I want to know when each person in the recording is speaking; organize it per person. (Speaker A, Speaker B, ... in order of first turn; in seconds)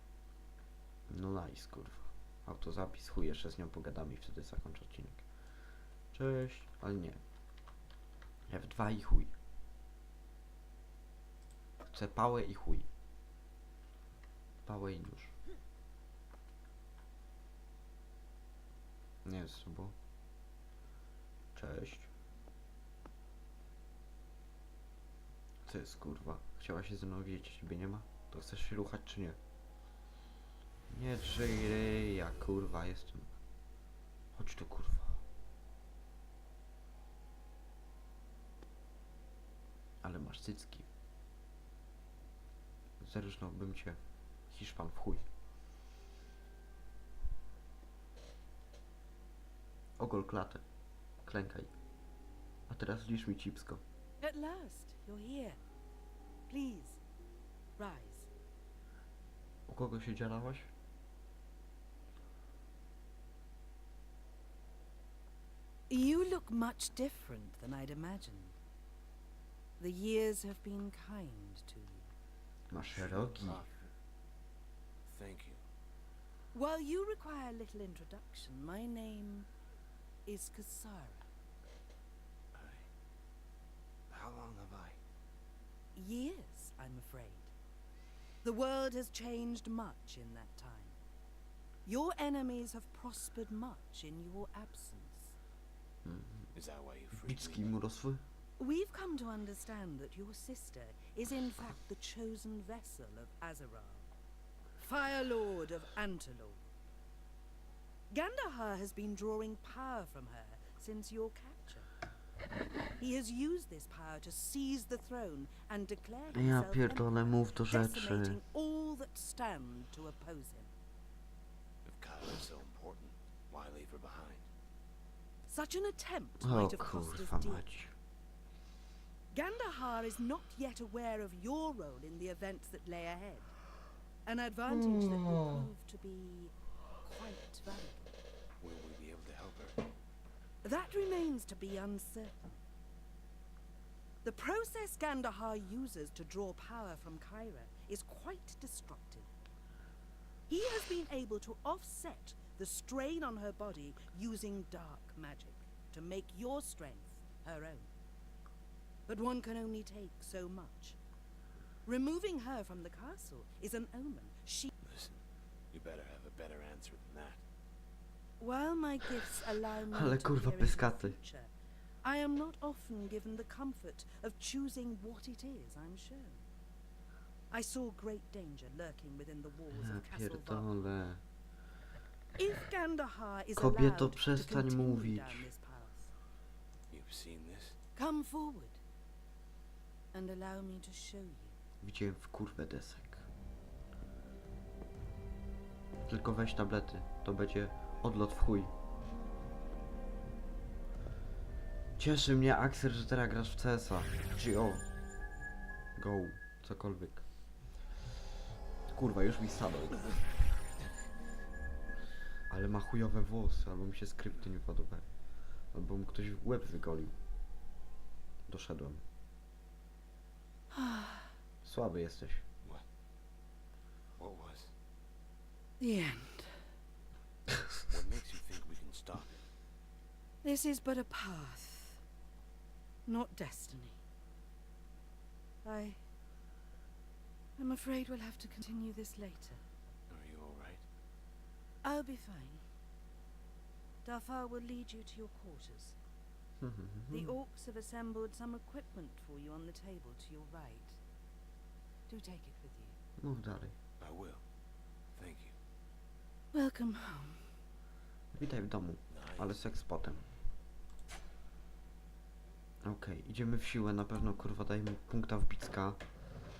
Speaker A: 1.1-5.2, 6.1-7.2, 8.5-9.3, 11.9-12.9, 14.6-15.3, 19.2-19.9, 21.5-22.1, 25.6-29.4, 30.9-33.3, 34.3-35.2, 40.0-40.9, 43.0-45.3, 50.0-50.6, 51.2-51.7, 52.7-53.8, 59.7-60.7, 72.7-73.6, 96.0-96.5, 97.1-98.2, 116.3-118.4, 126.4-127.9, 169.9-171.2, 179.7-181.2, 183.5-185.5, 191.8-193.3, 196.1-198.7, 201.9-204.9, 205.9-207.3, 208.8-210.4, 212.5-215.1, 215.7-217.2, 218.4-219.0, 221.6-222.4, 246.6-247.3, 253.2-253.7, 258.3-260.4, 262.8-266.1
Speaker B: 54.2-55.6, 56.5-57.0, 57.8-58.3, 65.9-68.6, 69.8-72.1, 76.5-79.5, 80.2-81.3, 85.9-87.5, 88.4-91.0, 91.8-95.3, 98.6-104.1, 104.8-106.6, 108.1-111.9, 113.0-120.7, 125.5-127.7, 129.3-133.6, 134.2-138.1, 140.6-142.5, 144.2-149.3, 150.5-157.9, 159.1-161.0, 161.8-164.7, 168.4-171.5, 172.0-176.4, 177.5-180.7, 182.3-186.1, 187.9-188.8, 190.1-191.6, 220.7-221.3, 225.8-226.7, 230.4-232.0, 233.1-234.0, 235.6-236.0, 237.6-239.6, 241.8-242.6, 244.0-245.9, 247.1-251.0, 252.1-252.9, 256.5-257.6
Speaker C: 72.9-73.9, 75.0-75.6, 82.5-82.9, 84.1-85.0, 96.5-97.7, 121.8-124.5, 138.6-139.8, 164.8-167.4, 186.9-187.8, 224.2-224.7, 227.9-229.4, 240.1-240.8, 254.0-254.4, 255.1-255.5, 259.1-259.5